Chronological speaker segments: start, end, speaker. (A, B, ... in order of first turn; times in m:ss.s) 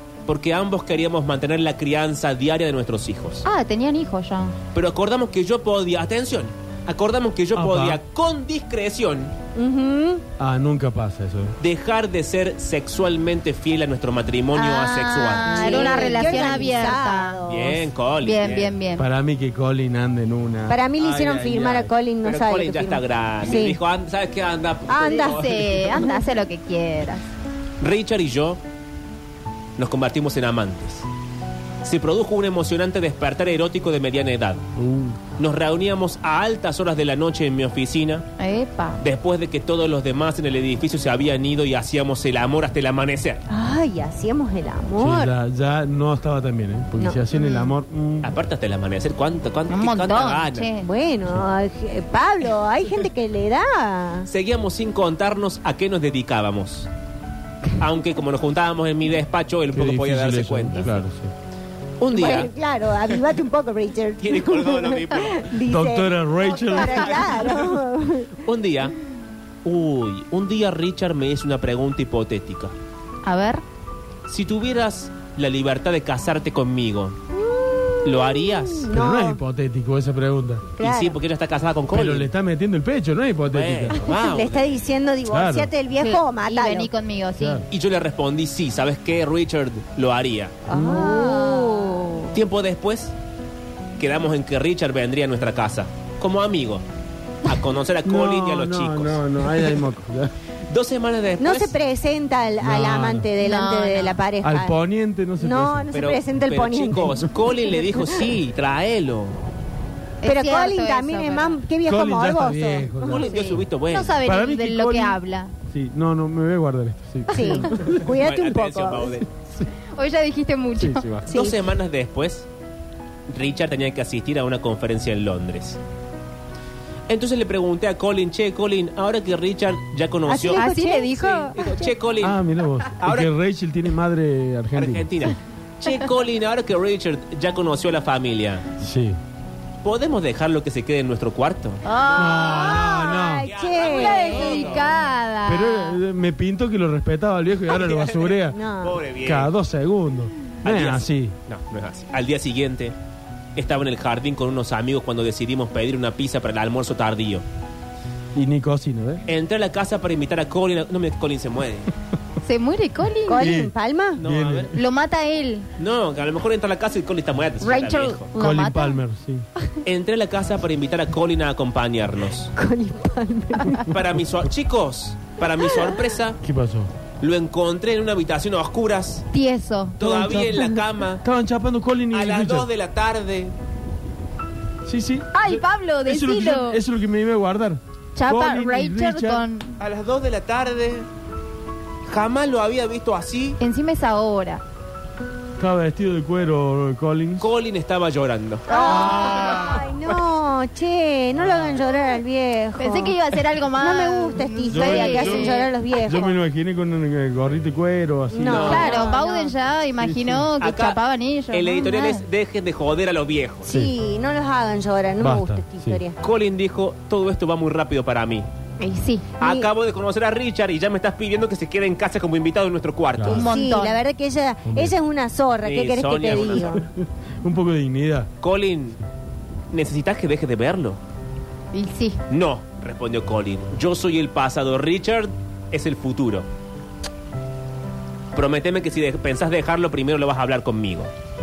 0:00.2-0:03.5 A
0:03.4-0:04.5 B
0:04.7-0:09.3 A
0:07.5-0:08.0 C
0:09.5-0:10.2 D
0:10.4-0:11.6 C
0:11.6-0:16.2 A
0:14.5-0:18.0 D
0:14.6-0:17.4 B
0:17.5-0:18.8 A
0:18.1-0:19.1 B
0:19.0-0:21.9 C
0:20.7-0:23.8 D
0:22.2-0:25.9 A
0:24.9-0:26.4 D
0:25.0-0:27.2 B
0:27.8-0:28.6 A
0:29.8-0:31.1 A
0:31.8-0:34.6 A
0:34.8-0:35.2 C
0:35.4-0:38.2 A
0:38.4-0:39.0 B
0:39.0-0:43.4 A
0:43.5-0:45.3 D
0:45.0-0:48.3 C
0:47.4-0:47.7 B
0:48.2-0:50.7 A
0:49.7-0:50.9 B
0:50.8-0:54.3 D
0:54.3-0:56.9 A
0:57.8-1:01.0 A
0:59.7-1:01.3 C
1:02.0-1:02.5 A
1:02.1-1:08.3 D
1:04.2-1:05.5 A
1:05.7-1:07.6 C
1:06.4-1:07.8 A
1:08.4-1:08.9 A
1:09.6-1:12.7 A
1:13.2-1:13.6 B
1:14.3-1:17.2 A
1:17.3-1:19.4 D
1:18.0-1:18.9 A
1:18.9-1:20.7 C
1:20.8-1:21.2 D
1:20.8-1:22.3 A
1:21.9-1:24.1 C
1:23.5-1:24.7 A
1:23.9-1:26.9 D
1:25.3-1:25.7 C
1:25.9-1:27.6 B
1:27.4-1:27.6 C
1:27.7-1:30.6 A
1:30.7-1:32.0 D
1:30.7-1:31.0 C
1:30.9-1:32.3 B
1:32.3-1:33.1 A
1:34.0-1:36.8 A
1:37.4-1:39.8 A
1:38.0-1:40.3 C
1:40.6-1:41.8 A
1:41.4-1:44.7 D
1:42.6-1:43.3 C
1:43.4-1:44.2 B
1:44.4-1:45.9 C
1:45.4-1:48.1 D
1:45.9-1:49.4 A
1:47.0-1:47.2 C
1:50.2-1:51.6 B
1:50.2-1:53.4 D
1:51.8-1:53.6 C
1:53.0-1:54.2 A
1:53.2-1:55.5 B
1:54.2-1:58.1 C
1:57.3-1:59.2 D
1:57.9-1:59.3 A
1:59.9-2:01.2 B
2:00.8-2:01.4 C
2:01.3-2:01.7 D
2:01.3-2:02.5 A
2:03.3-2:05.8 A
2:07.1-2:10.7 A
2:10.2-2:11.9 D
2:10.5-2:11.5 B
2:11.4-2:12.4 A
2:12.2-2:15.1 C
2:13.0-2:13.3 A
2:14.7-2:18.6 A
2:18.8-2:19.2 C
2:19.8-2:22.4 A
2:21.8-2:22.7 B
2:22.1-2:23.5 C
2:22.4-2:24.9 D
2:23.4-2:25.0 A
2:23.8-2:26.0 B
2:25.5-2:28.6 C
2:27.7-2:29.5 A
2:28.5-2:29.0 D
2:29.2-2:31.3 C
2:30.6-2:32.9 A
2:33.6-2:37.4 A
2:38.3-2:39.2 C
2:39.3-2:41.9 A
2:42.4-2:43.5 B
2:43.2-2:44.2 D
2:43.4-2:44.7 C
2:44.2-2:44.7 A
2:44.7-2:45.7 B
2:45.8-2:48.3 A
2:47.6-2:49.0 B
2:48.4-2:49.4 C
2:49.8-2:52.5 A
2:52.6-2:53.8 D
2:53.9-2:56.4 A
2:56.4-2:56.9 C
2:57.2-2:59.3 A
2:59.3-3:00.0 B
3:00.0-3:01.2 A
3:00.0-3:02.7 C
3:02.1-3:03.5 A
3:04.8-3:09.4 C
3:05.3-3:06.8 B
3:08.1-3:09.8 B
3:09.8-3:11.1 A
3:12.1-3:13.6 A
3:13.6-3:14.6 B
3:15.6-3:17.5 C
3:17.4-3:20.2 A
3:18.7-3:23.2 D
3:18.7-3:19.9 C
3:22.8-3:25.7 B
3:23.8-3:26.4 D
3:24.7-3:28.8 C
3:28.3-3:29.5 D
3:28.4-3:29.0 A
3:28.7-3:32.2 B
3:30.0-3:30.5 C
3:30.6-3:33.6 A
3:33.6-3:36.2 D
3:33.7-3:33.9 C
3:35.2-3:36.0 C
3:36.2-3:38.5 A
3:38.8-3:39.3 B
3:39.4-3:39.7 D
3:39.4-3:43.5 A
3:43.1-3:43.5 C
3:43.3-3:44.0 B
3:43.3-3:46.8 D
3:44.6-3:45.0 C
3:45.6-3:46.8 A
3:46.5-3:48.3 C
3:48.4-3:49.0 A
3:49.7-3:51.0 A
3:51.7-3:52.2 B
3:52.3-3:56.5 A
3:58.3-4:01.1 A